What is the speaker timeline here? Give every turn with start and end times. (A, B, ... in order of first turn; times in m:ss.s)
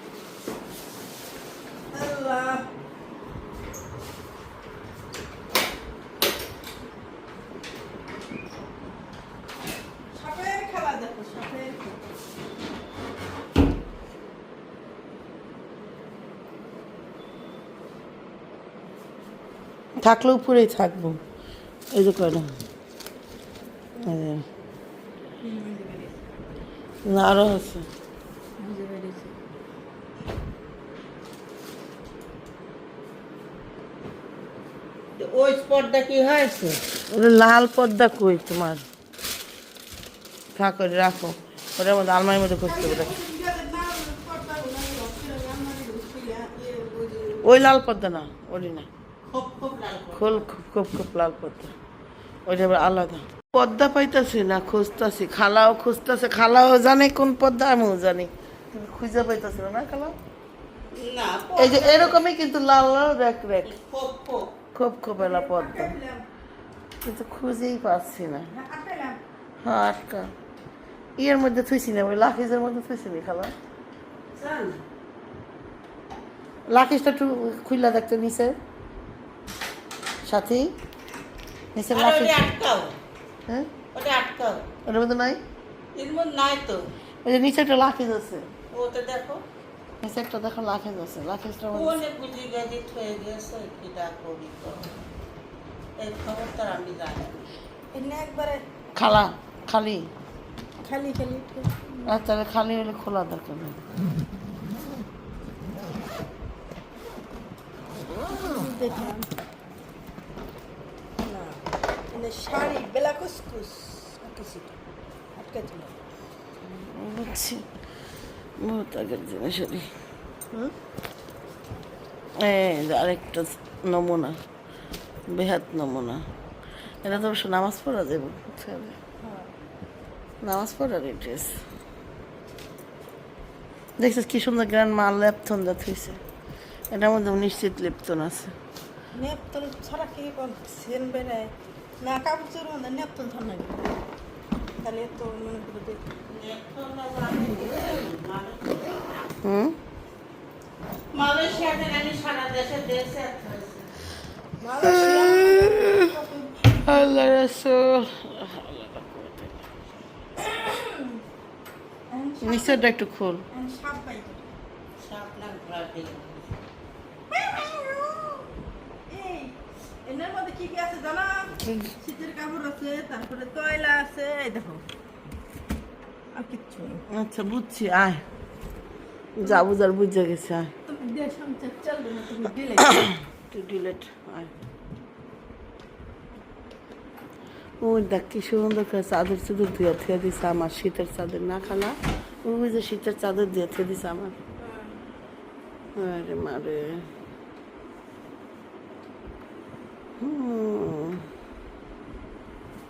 0:01.9-0:02.6 A
0:10.1-0:12.0 A
0:20.0-0:21.2 B
0:21.9-0:22.5 B
0:24.0-0:24.4 B
0:25.4-0:26.2 A
0:27.1-0:27.9 B
0:28.6-0:29.3 A
0:35.2-0:36.8 C
0:37.1-0:38.8 B
0:40.6-0:43.1 B
0:42.6-0:47.5 A
0:47.4-0:48.9 B
0:49.3-0:50.5 C
0:50.1-0:51.7 B
0:52.5-1:00.2 B
1:00.9-1:02.2 C
1:01.6-1:03.7 B
1:03.6-1:04.5 C
1:04.7-1:06.0 B
1:05.2-1:06.2 A
1:07.0-1:08.5 B
1:08.5-1:09.2 A
1:09.6-1:10.3 B
1:11.2-1:13.5 B
1:14.3-1:14.8 C
1:16.7-1:18.6 B
1:20.2-1:20.7 B
1:21.8-1:22.4 B
1:21.9-1:22.9 C
1:23.9-1:24.7 C
1:24.9-1:25.4 B
1:25.9-1:26.9 C
1:27.2-1:28.5 B
1:28.7-1:29.4 C
1:30.0-1:32.0 B
1:31.7-1:34.9 C
1:36.0-1:37.5 C
1:37.9-1:38.6 A
1:39.0-1:40.1 B
1:40.8-1:42.0 A
1:42.0-1:43.8 B
1:48.2-1:49.3 A
1:51.2-1:54.7 A
1:55.4-1:56.0 A
1:56.7-1:57.6 B
1:58.6-1:59.9 B
2:02.4-2:04.4 B
2:05.3-2:06.2 B
2:07.0-2:09.0 B
2:09.2-2:09.5 A
2:10.4-2:11.6 B
2:14.0-2:16.2 B
2:16.9-2:18.5 B
2:19.1-2:23.9 A
2:24.8-2:26.1 A
2:26.3-2:29.0 C
2:29.4-2:29.8 B
2:31.1-2:33.9 C
2:34.6-2:37.1 A
2:34.8-2:36.1 B
2:36.8-2:39.6 B
2:40.4-2:41.2 A
2:42.1-2:42.8 A
2:42.4-2:43.4 B
2:43.5-2:44.4 A
2:45.0-2:46.5 C
2:47.3-2:48.5 A
2:49.1-2:49.6 A
2:50.1-2:54.8 A
2:51.6-2:51.9 B
2:56.4-2:57.0 A
2:57.1-2:58.2 B
2:59.4-3:00.7 B
3:00.9-3:03.0 A
3:02.9-3:04.5 B
3:07.8-3:14.4 B
3:14.6-3:15.0 A
3:16.0-3:17.0 B
3:20.2-3:21.2 B